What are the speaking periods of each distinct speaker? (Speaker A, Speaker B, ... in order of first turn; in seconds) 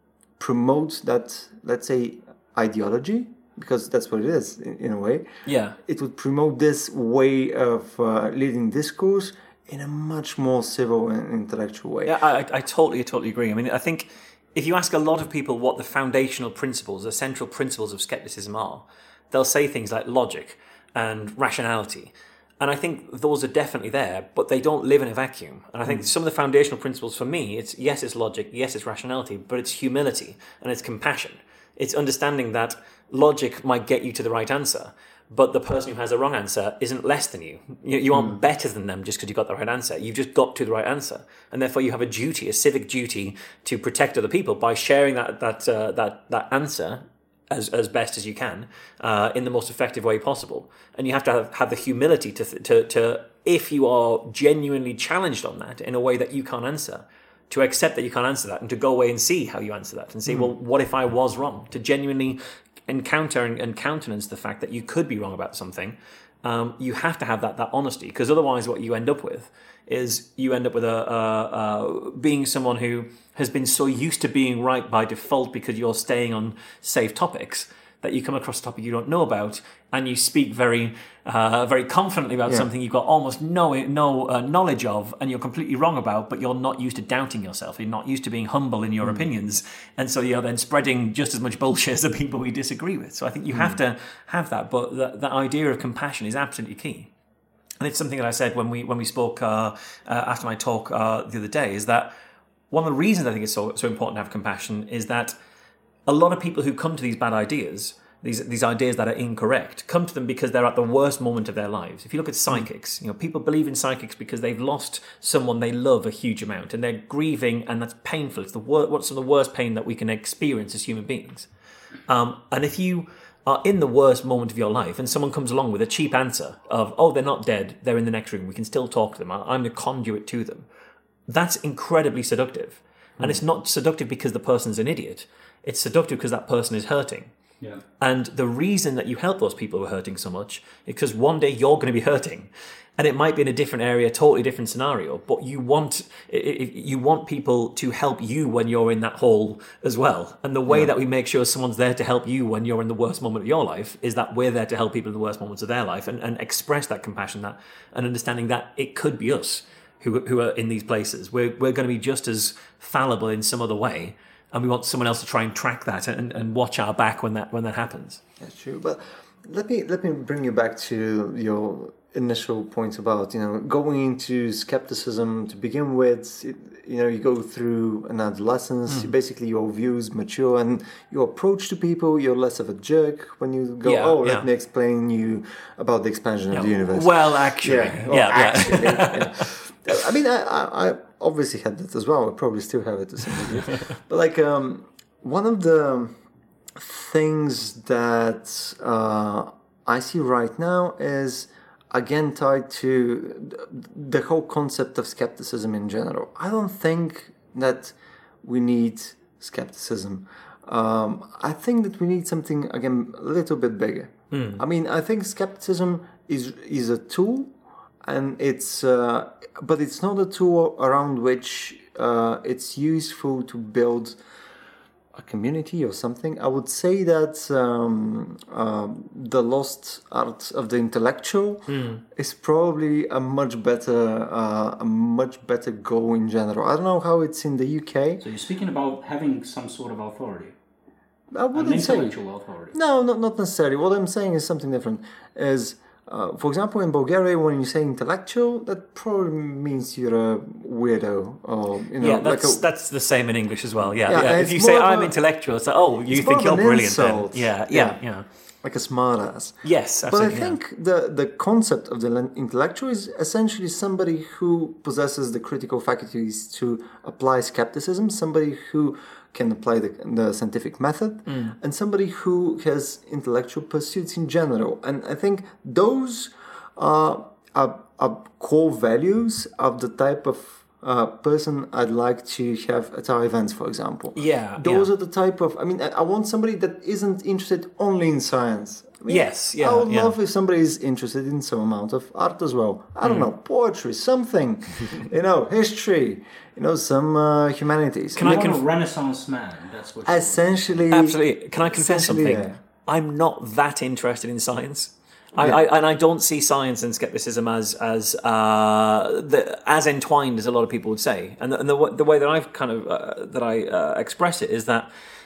Speaker A: 0.4-5.2, 5.8-12.2, 168.4-196.2, 196.8-224.2, 225.1-238.2, 241.3-242.1, 242.7-252.6, 253.9-255.2, 256.1-258.0, 258.6-298.6, 300.0-302.6
Speaker B: 5.5-5.8, 12.1-97.1, 97.8-102.1, 102.7-105.3, 106.1-121.5, 122.1-130.7, 131.3-137.3, 138.0-168.2, 183.8-184.4, 186.5-189.5, 214.3-214.6, 231.7-232.0, 252.0-258.2, 259.6-260.6, 271.3-271.5, 284.1-284.9, 289.1-290.1, 298.1-298.6, 300.9-314.9
Speaker C: 238.2-240.5, 241.5-242.8, 298.2-300.8